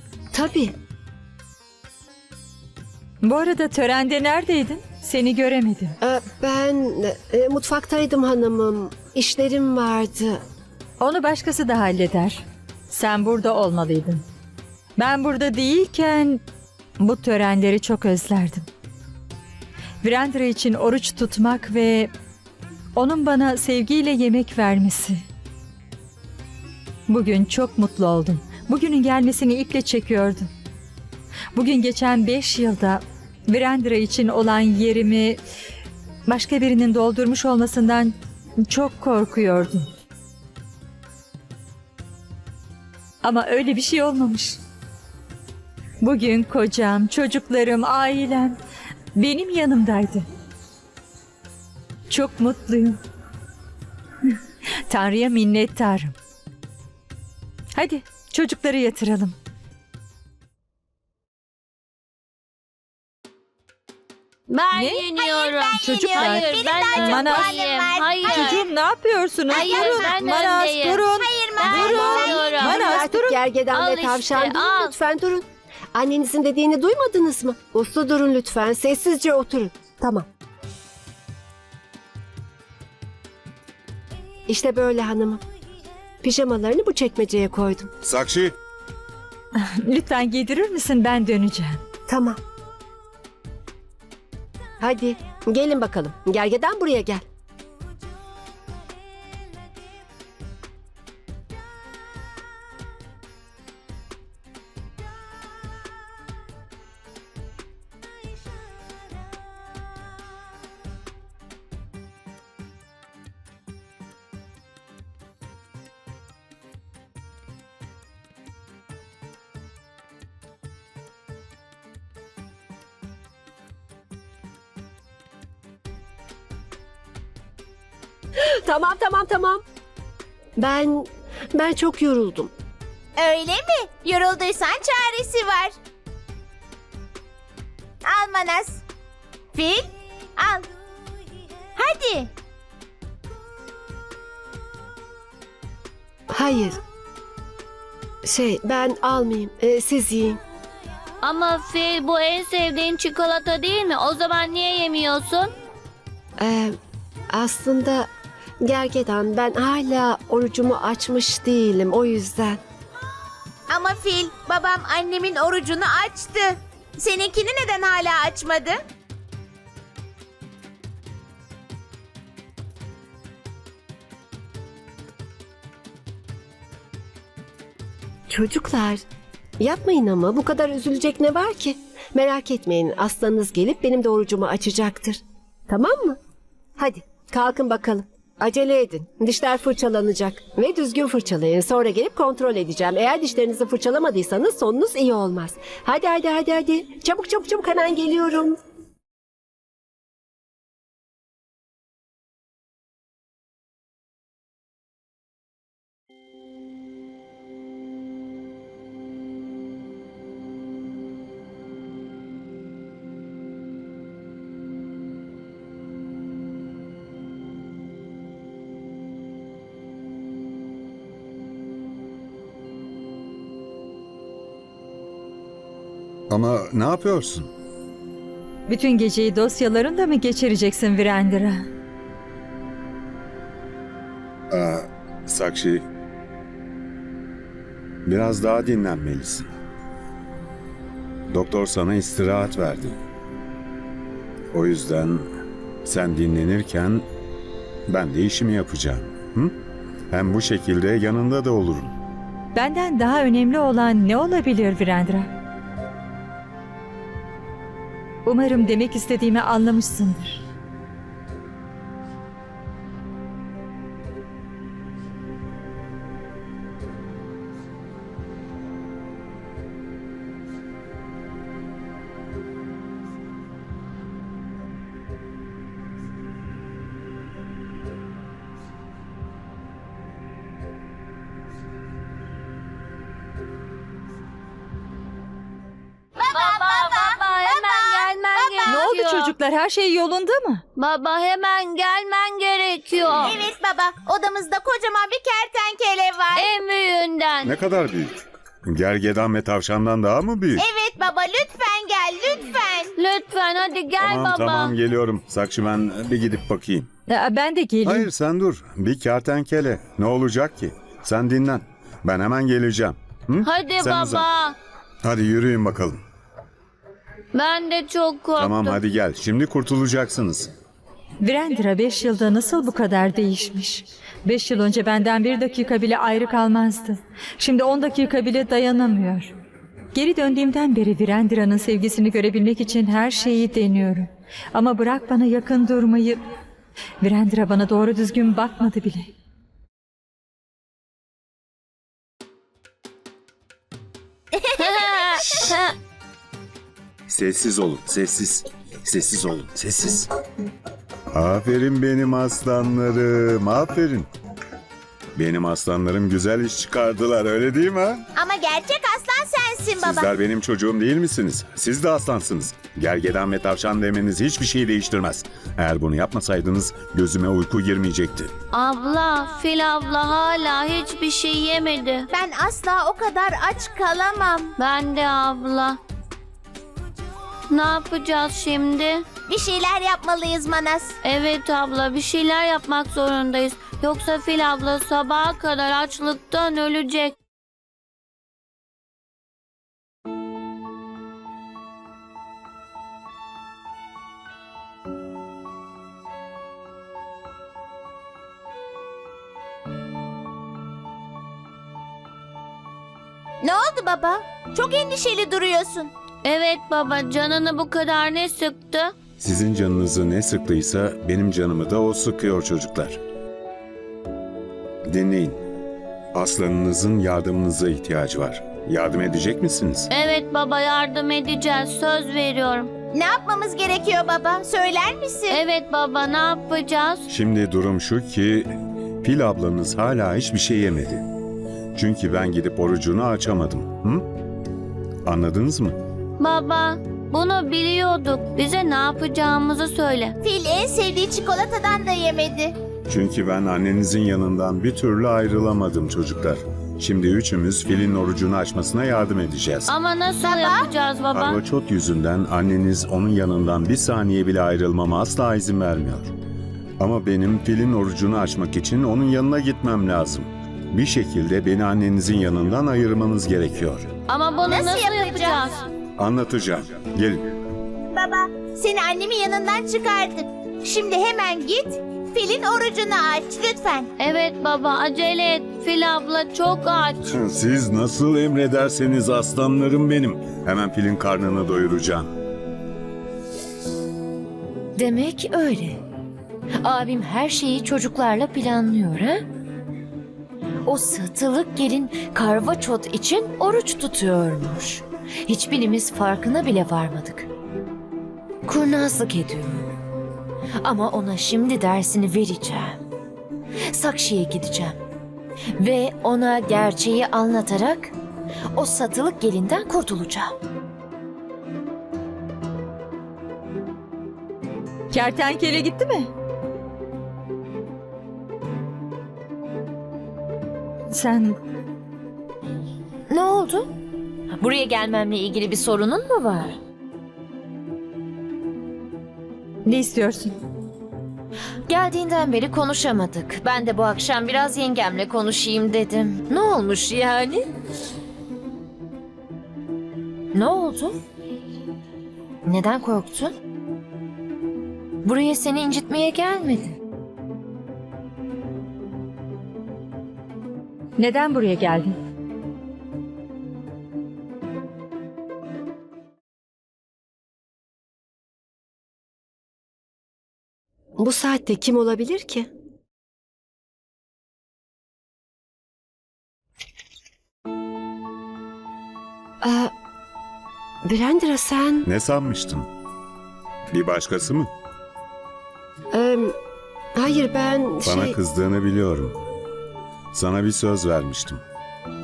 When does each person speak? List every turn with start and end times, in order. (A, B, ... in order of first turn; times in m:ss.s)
0:00.3-0:00.7 A
0:03.2-0:06.0 B
0:06.0-0:10.4 A
0:11.0-0:14.2 B
0:15.0-0:16.4 B
0:17.0-0:18.7 B
0:20.0-0:22.1 B
0:23.0-0:25.2 B
0:27.1-0:30.5 B
0:31.5-0:35.4 B
0:36.3-0:39.9 B
0:43.2-0:44.6 B
0:46.0-0:48.6 B
0:49.1-0:50.2 B
0:52.1-0:53.0 B
0:54.9-0:56.2 B
0:57.8-0:59.4 B
1:04.5-1:08.6 C
1:04.7-1:05.1 B
1:05.2-1:08.7 D
1:05.7-1:07.5 B
1:08.2-1:13.4 B
1:09.5-1:10.2 D
1:09.5-1:12.9 C
1:11.2-1:12.5 D
1:11.8-1:20.3 A
1:13.7-1:15.0 C
1:24.5-1:25.4 A
1:26.2-1:27.9 A
1:28.0-1:28.6 E
1:29.6-1:31.8 B
1:32.1-1:32.4 A
1:34.8-1:37.2 A
2:08.6-2:09.6 A
2:10.6-2:12.5 A
2:13.2-2:15.8 D
2:18.0-2:18.8 D
2:19.6-2:20.7 D
2:21.8-2:22.3 D
2:26.3-2:26.8 A
2:28.2-2:30.4 A
2:31.2-2:35.5 C
2:36.4-2:36.7 A
2:37.3-2:38.1 A
2:38.6-2:42.6 A
2:43.7-2:48.8 D
2:58.3-2:59.0 A
2:59.6-3:06.2 A
3:06.8-3:18.6 A
3:46.3-3:47.5 E
3:48.7-3:51.7 B
3:54.5-3:55.8 E
3:58.0-3:59.5 E
4:01.3-4:03.0 E
4:04.5-4:05.3 E
4:05.8-4:07.0 E
4:07.9-4:09.5 E
4:10.1-4:12.0 E
4:12.6-4:15.3 B
4:18.2-4:20.4 B
4:46.2-4:48.9 D
4:46.3-4:49.3 C
4:48.7-4:50.6 B
4:50.8-4:53.4 C
4:53.2-4:56.5 D
4:56.4-4:57.5 C
4:57.4-5:00.6 E
5:00.6-5:03.0 D
5:03.0-5:04.8 C
5:04.0-5:06.9 E
5:07.1-5:08.1 B
5:07.8-5:14.2 E
5:13.4-5:14.6 C
5:15.0-5:16.0 E
5:17.3-5:18.8 C
5:18.4-5:20.5 E
5:21.2-5:29.3 B
5:29.9-5:36.2 B
5:37.0-5:39.1 B
5:44.4-5:45.4 D
5:44.6-5:45.7 C
5:47.1-5:50.1 E
5:51.1-5:54.1 E
5:55.2-5:58.1 E
5:58.2-6:00.1 D
5:59.8-6:08.3 E
6:08.5-6:12.1 C
6:12.1-6:14.6 D
6:14.6-6:15.8 C
6:17.5-6:19.1 C
6:19.3-6:21.0 D
6:21.0-6:27.2 C
6:43.4-6:45.9 D
6:46.2-6:49.0 C
6:49.2-6:53.0 E
6:54.9-6:55.4 E
6:56.1-6:59.9 E
6:59.9-7:02.7 C
7:02.9-7:05.4 D
7:05.3-7:07.1 C
7:07.1-7:08.5 E
7:09.0-7:11.0 E
7:11.8-7:14.0 E
7:15.1-7:15.8 E
7:16.2-7:20.2 C
7:20.2-7:22.6 D
7:22.9-7:29.7 E
7:29.7-7:31.4 C
7:30.2-7:30.7 D
7:31.1-7:36.1 E
7:36.8-7:43.9 E
7:44.1-7:45.7 C
7:44.4-7:45.6 D
7:46.0-7:47.2 E
7:47.9-7:53.9 D
7:54.0-7:57.0 C
7:57.0-8:02.1 E
8:04.8-8:05.8 F
8:06.6-8:09.3 F
8:10.6-8:17.3 F
8:18.4-8:19.8 F
8:20.6-8:22.8 F
8:23.7-8:24.8 F
8:25.6-8:28.0 F
8:28.5-8:30.4 F
8:34.9-8:36.1 B
8:40.9-8:41.4 B
8:43.1-8:43.7 F
8:44.4-8:46.6 F
8:49.6-8:50.4 B
8:51.6-8:57.6 F
9:00.3-9:01.0 F
9:02.4-9:03.4 F
9:05.0-9:06.8 F
9:11.0-9:12.0 B
9:21.0-9:22.5 A
9:29.4-9:29.7 A
9:30.8-9:31.9 A
9:31.8-9:32.7 E
9:33.7-9:34.5 E
9:35.9-9:36.3 A
9:37.0-9:38.2 A
9:37.8-9:39.2 E
9:40.1-9:41.4 E